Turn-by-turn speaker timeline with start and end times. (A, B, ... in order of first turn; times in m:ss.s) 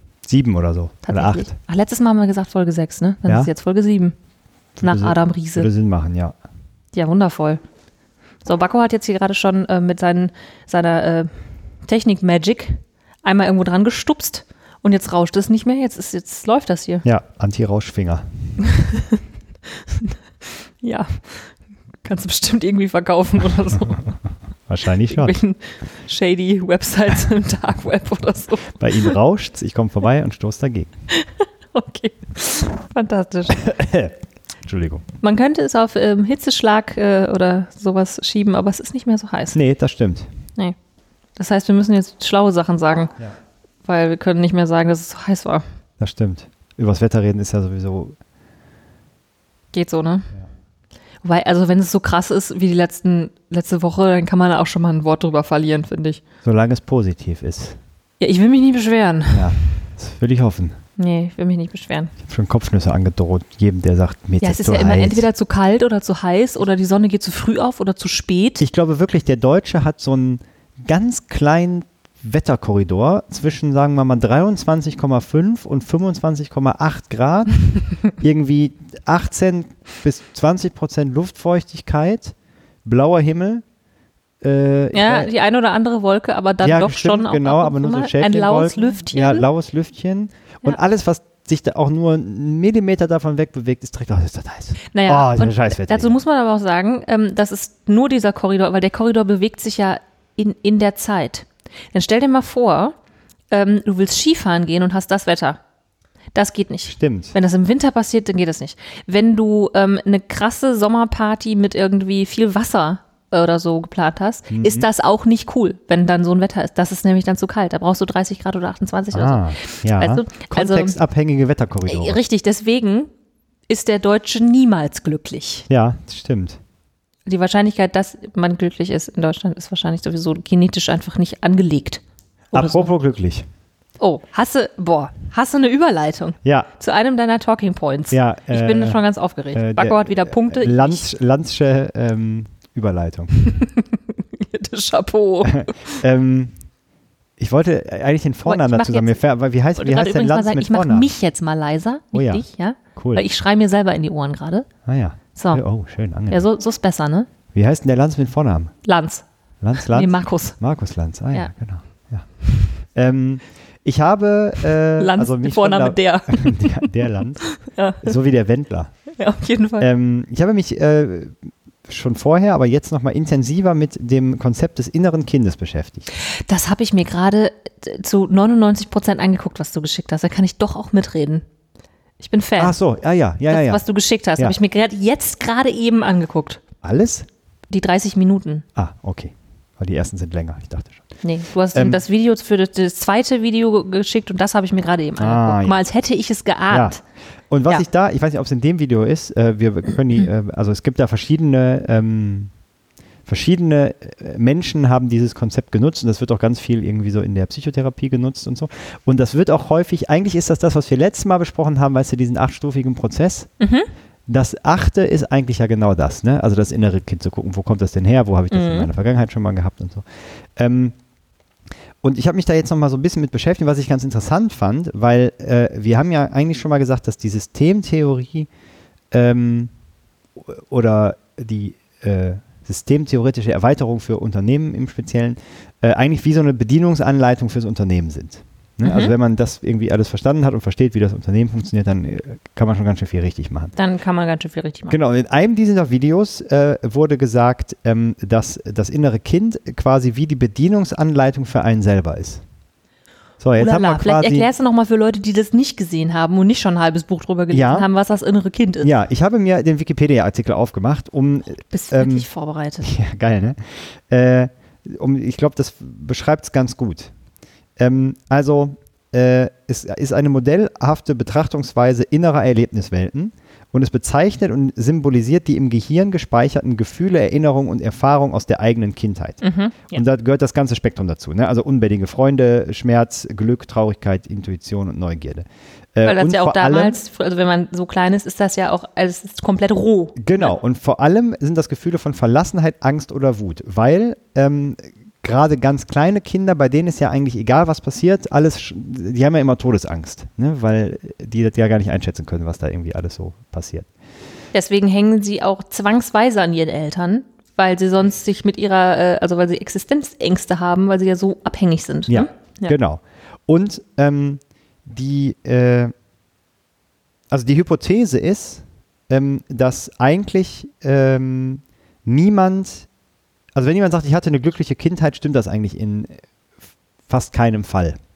0:00.2-0:01.5 A
0:01.0-0:04.1 B
0:04.8-0:06.4 A
0:04.8-0:05.7 B
0:06.9-0:07.6 B
0:08.4-0:11.3 B
0:11.8-0:17.0 B
0:17.0-0:18.2 A
0:18.6-0:19.2 B
0:19.9-0:20.2 B
0:20.8-0:21.5 B
0:22.0-0:24.1 B
0:24.7-0:25.4 A
0:25.1-0:29.2 B
0:28.8-0:30.9 A
0:31.1-0:33.6 B
0:33.5-0:35.0 A
0:35.2-0:39.6 B
0:39.5-0:40.3 A
0:41.4-0:43.1 B
0:43.8-0:45.6 B
0:46.0-0:48.2 A
0:49.7-0:50.3 B
0:51.2-0:56.2 B
0:56.4-0:57.8 A
0:58.2-0:59.6 B
0:59.3-1:00.8 A
1:01.0-1:02.1 B
1:02.2-1:05.3 A
1:04.4-1:08.6 B
1:08.6-1:17.6 A
1:18.1-1:22.3 A
1:22.8-1:23.6 A
1:24.4-1:25.3 A
1:24.9-1:29.4 B
1:26.6-1:36.1 A
1:34.9-1:42.9 B
1:43.5-1:45.6 B
1:46.3-2:00.9 B
1:46.8-1:47.3 A
1:54.5-1:54.8 A
1:59.1-2:02.2 A
2:01.8-2:03.1 B
2:03.7-2:05.7 B
2:05.7-2:06.6 A
2:07.3-2:12.0 B
2:12.5-2:13.4 A
2:12.5-2:12.9 B
2:14.0-2:21.1 B
2:16.4-2:16.7 A
2:18.1-2:19.0 A
2:19.5-2:23.3 A
2:23.3-2:26.0 B
2:25.4-2:26.5 A
2:27.4-2:31.1 A
2:28.4-2:29.2 B
2:29.8-2:34.7 B
2:32.1-2:32.4 A
2:33.0-2:33.2 A
2:34.8-2:36.4 A
2:35.4-2:35.6 B
2:36.3-2:37.3 B
2:37.5-2:38.7 A
2:38.8-2:39.2 B
2:39.6-2:42.2 A
2:39.8-2:40.6 B
2:42.9-2:47.4 A
2:45.0-2:48.2 B
2:48.0-2:48.9 A
2:49.2-2:49.9 B
2:49.8-2:56.1 A
2:56.2-3:01.4 B
3:02.2-3:02.7 B
3:02.6-3:03.8 A
3:03.5-3:06.6 B
3:06.8-3:07.3 A
3:07.7-3:08.6 B
3:08.8-3:11.1 A
3:11.2-3:17.0 B
3:11.7-3:12.0 A
3:15.2-3:15.8 A
3:16.7-3:17.0 A
3:17.5-3:22.5 A
3:23.3-3:33.5 A
3:33.6-3:33.9 B
3:34.3-3:40.0 A
3:38.5-3:38.9 B
3:40.6-3:40.9 A
3:42.0-3:48.5 A
3:49.1-3:49.7 A
3:50.4-4:03.7 A
3:58.8-3:59.1 B
4:03.8-4:05.0 B
4:04.9-4:12.4 A
4:13.4-4:14.5 A
4:13.6-4:18.9 B
4:17.5-4:17.9 A
4:18.8-4:22.3 A
4:21.7-4:22.9 B
4:22.8-4:27.1 A
4:27.8-4:47.0 A
4:39.4-4:40.0 B
4:46.0-4:50.5 B
4:50.2-5:03.9 A
5:04.5-5:12.7 B
5:12.1-5:15.9 A
5:17.3-5:22.9 A
5:23.5-5:26.1 A
5:27.1-5:28.0 A